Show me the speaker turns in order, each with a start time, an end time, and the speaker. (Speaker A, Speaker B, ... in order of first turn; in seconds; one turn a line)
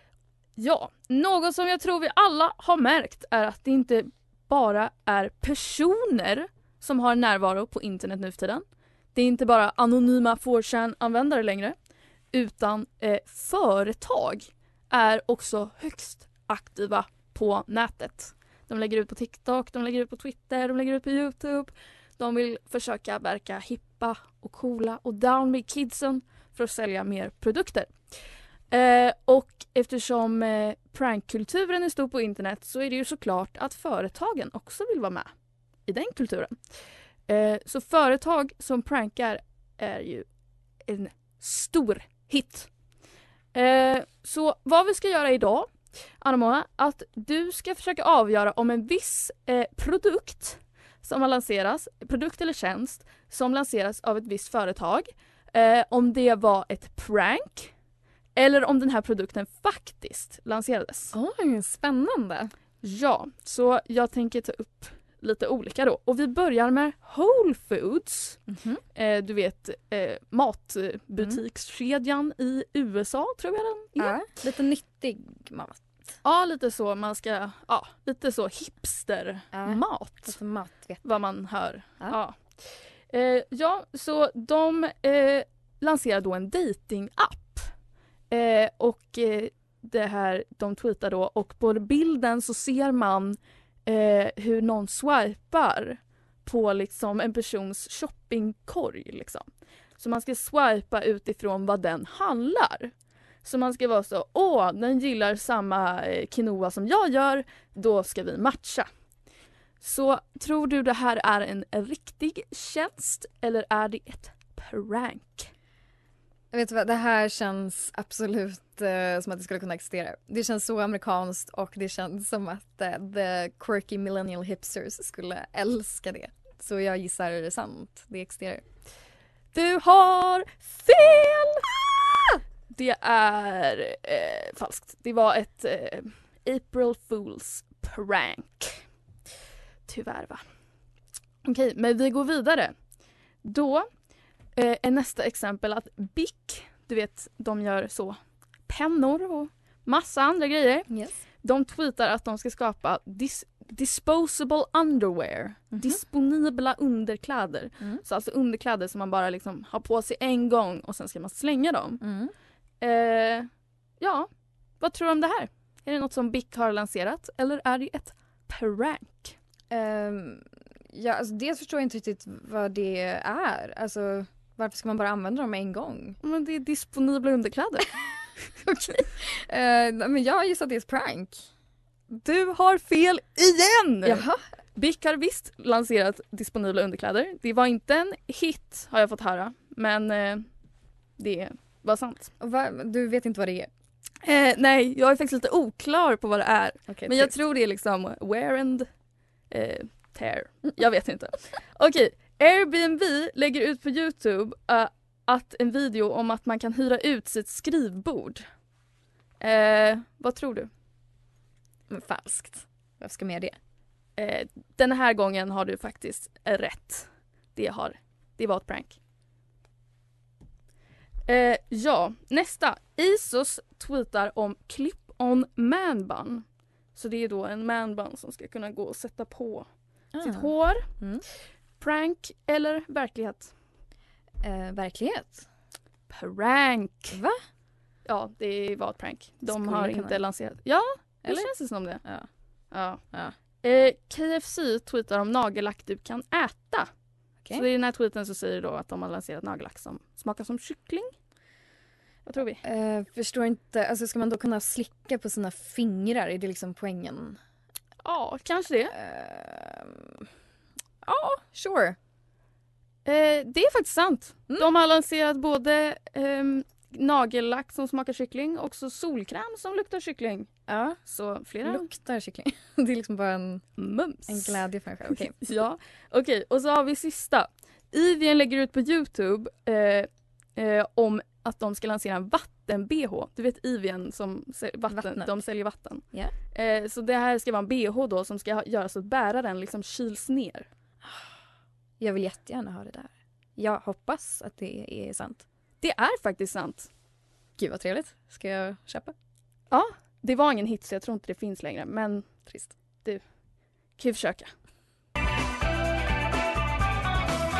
Speaker A: 0.6-11.8
Speaker A: 12.3-27.9
Speaker A: 28.7-35.3
Speaker A: 35.9-40.3
Speaker A: 40.8-42.7
Speaker A: 43.5-57.7
Speaker A: 58.3-61.1
Speaker B: 61.1-62.5
Speaker A: 62.8-68.4
Speaker B: 68.5-68.8
Speaker A: 68.9-74.2
Speaker B: 74.0-75.8
Speaker A: 76.2-80.4
Speaker B: 79.5-81.0
Speaker A: 81.0-87.7
Speaker A: 88.3-108.9
Speaker A: 109.8-115.5
Speaker B: 116.5-128.6
Speaker A: 129.5-131.7
Speaker A: 132.7-138.8
Speaker A: 139.8-140.4
Speaker A: 141.4-142.7
Speaker A: 143.4-143.9
Speaker A: 144.5-150.9
Speaker B: 150.9-151.2
Speaker A: 151.4-162.0
Speaker B: 155.7-156.0
Speaker B: 162.0-162.3
Speaker A: 162.8-163.5
Speaker A: 164.0-164.3
Speaker A: 164.8-169.3
Speaker B: 169.7-176.2
Speaker A: 176.2-178.0
Speaker B: 178.6-181.4
Speaker A: 182.1-190.5
Speaker B: 184.0-184.4
Speaker A: 191.2-192.3
Speaker B: 192.4-193.7
Speaker A: 194.2-198.9
Speaker B: 196.9-197.3
Speaker A: 199.5-208.5
Speaker A: 209.4-210.7
Speaker B: 211.9-213.6
Speaker A: 214.2-219.0
Speaker A: 221.2-230.9
Speaker B: 230.1-231.2
Speaker A: 231.8-233.5
Speaker B: 234.4-235.4
Speaker A: 236.1-237.2
Speaker B: 237.1-237.4
Speaker A: 238.1-242.0
Speaker B: 239.4-240.2
Speaker B: 241.2-242.3
Speaker A: 242.7-246.9
Speaker A: 247.5-251.1
Speaker A: 252.2-252.6
Speaker B: 252.6-257.4
Speaker A: 258.0-258.9
Speaker B: 258.9-260.2
Speaker B: 261.0-262.0
Speaker A: 263.0-270.5
Speaker B: 270.7-271.0
Speaker A: 271.0-271.9
Speaker B: 271.6-273.6
Speaker A: 273.8-290.7
Speaker B: 274.2-275.4
Speaker B: 284.9-285.4
Speaker B: 292.0-295.4
Speaker A: 295.8-296.9
Speaker B: 297.6-299.1
Speaker A: 299.7-302.3
Speaker B: 302.4-302.7
Speaker A: 303.9-304.5